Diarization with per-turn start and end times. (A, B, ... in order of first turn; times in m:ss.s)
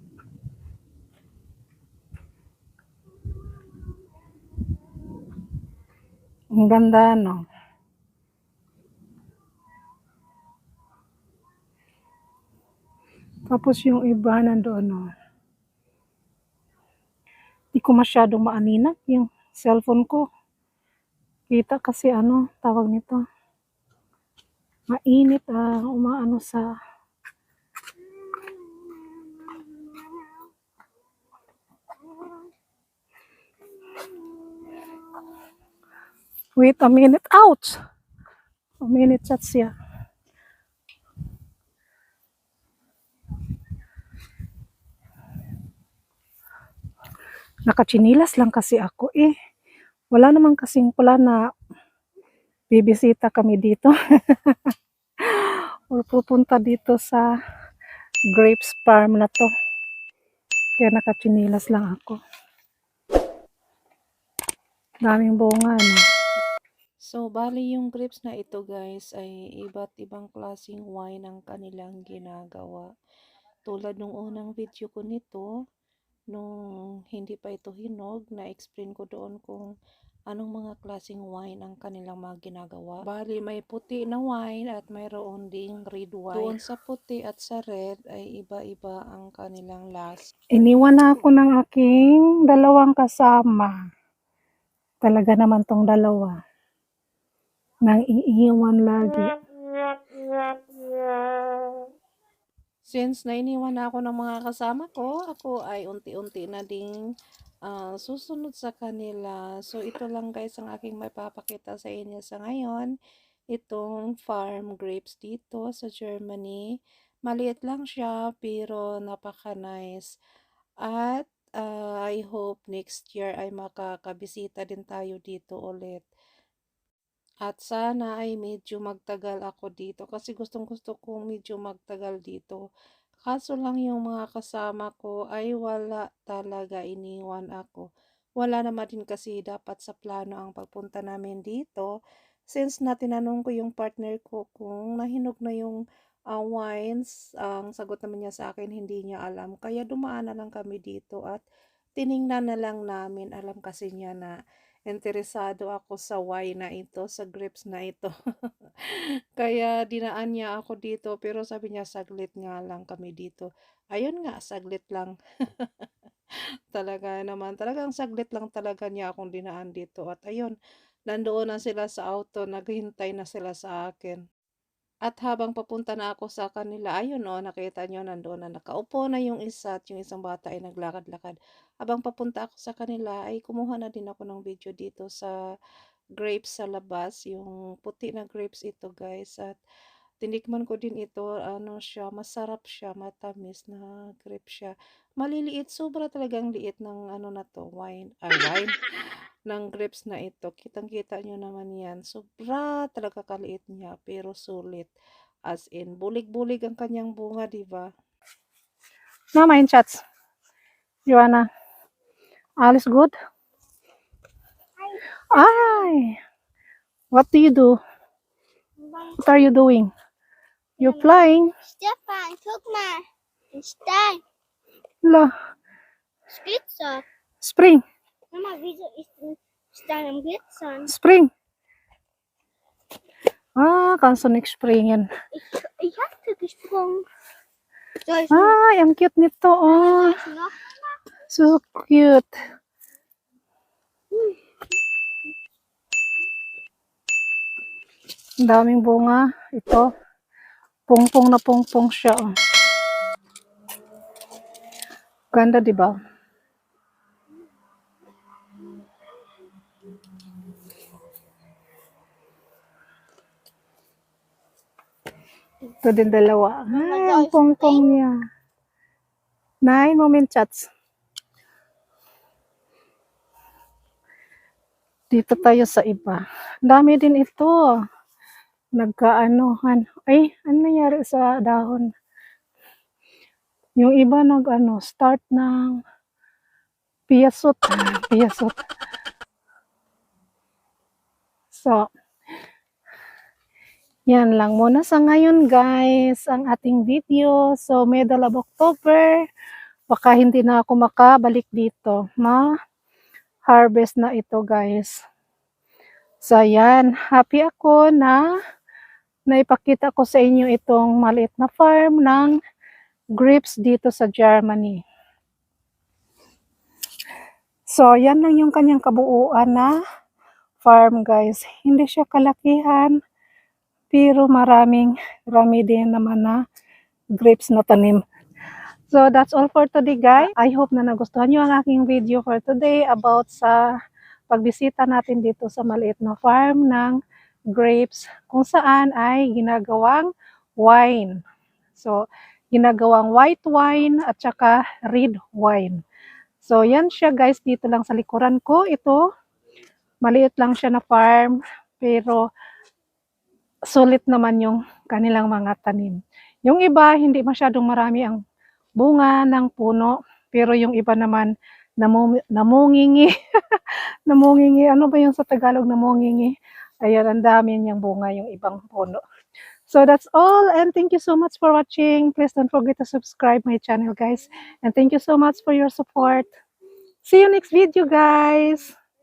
0:06.5-0:07.4 A
0:13.5-0:15.1 A
0:17.8-0:20.2 A
0:21.5-0:23.2 A
0:24.9-0:26.7 A
0:36.6-0:37.8 A
0:38.8-0:39.7 A
0:47.7-0:49.3 A
0:50.1-0:51.4 A
0:52.7-0:54.6 A
0:55.2-0:57.3 A
0:58.3-0:59.5 A
1:00.8-1:02.2 A
1:05.1-1:06.0 A
1:07.1-1:12.9 B
1:13.7-1:15.5 B
1:17.1-1:19.7 B
1:20.3-1:30.3 B
1:30.6-1:33.7 A
1:35.0-1:36.4 A
1:37.8-1:39.3 A
1:42.9-1:46.9 B
1:47.7-1:52.9 B
1:53.5-1:56.6 B
1:57.3-2:00.1 B
2:00.8-2:06.0 B
2:07.5-2:12.6 B
2:13.2-2:17.8 B
2:18.4-2:21.9 B
2:22.5-2:25.8 B
2:26.3-2:31.4 B
2:32.0-2:34.3 B
2:34.9-2:38.1 B
2:38.8-2:45.9 B
2:46.7-2:50.5 B
2:51.1-2:54.2 B
2:55.1-3:05.3 B
3:06.2-3:09.6 B
3:10.2-3:18.8 B
3:19.5-3:24.9 B
3:25.5-3:27.9 B
3:29.4-3:30.0 A
3:31.1-3:31.5 A
3:32.6-3:33.2 A
3:34.8-3:35.8 C
3:35.3-3:36.2 A
3:37.1-3:37.8 A
3:38.8-3:39.4 C
3:39.2-3:39.9 A
3:40.8-3:44.2 C
3:40.8-3:41.5 A
3:45.0-3:45.3 A
3:46.3-3:47.0 C
3:47.4-3:47.8 A
3:48.3-3:50.9 C
3:50.9-3:51.3 A
3:53.6-3:55.0 A
3:55.3-3:57.0 C
3:58.0-3:58.5 C
3:58.3-4:00.2 A
3:59.7-4:01.0 C
4:01.3-4:02.3 A
4:04.1-4:04.4 C
4:08.4-4:09.8 A
4:10.9-4:12.3 A
4:15.3-4:16.0 A
4:25.8-4:28.1 A
4:26.7-4:27.9 C
4:29.6-4:30.7 A
4:35.1-4:37.5 A
4:38.8-4:41.9 A
4:43.8-4:45.8 A
4:47.1-4:48.5 A
4:51.5-4:51.8 A
4:54.1-4:59.2 A
4:59.9-5:02.4 A
5:03.5-5:04.9 A
5:06.2-5:08.2 A
5:09.3-5:12.3 A
5:13.2-5:14.8 A
5:17.7-5:19.8 A
5:20.6-5:23.0 A
5:23.9-5:26.4 A
5:27.2-5:28.0 A
5:28.9-5:33.7 A
5:34.3-5:37.0 A
5:37.5-5:41.2 A
5:42.5-5:45.8 A
5:46.4-5:49.0 A
5:50.0-5:52.2 A
5:53.7-5:58.2 A
5:58.8-6:09.0 A
6:09.7-6:16.3 A
6:17.0-6:18.8 A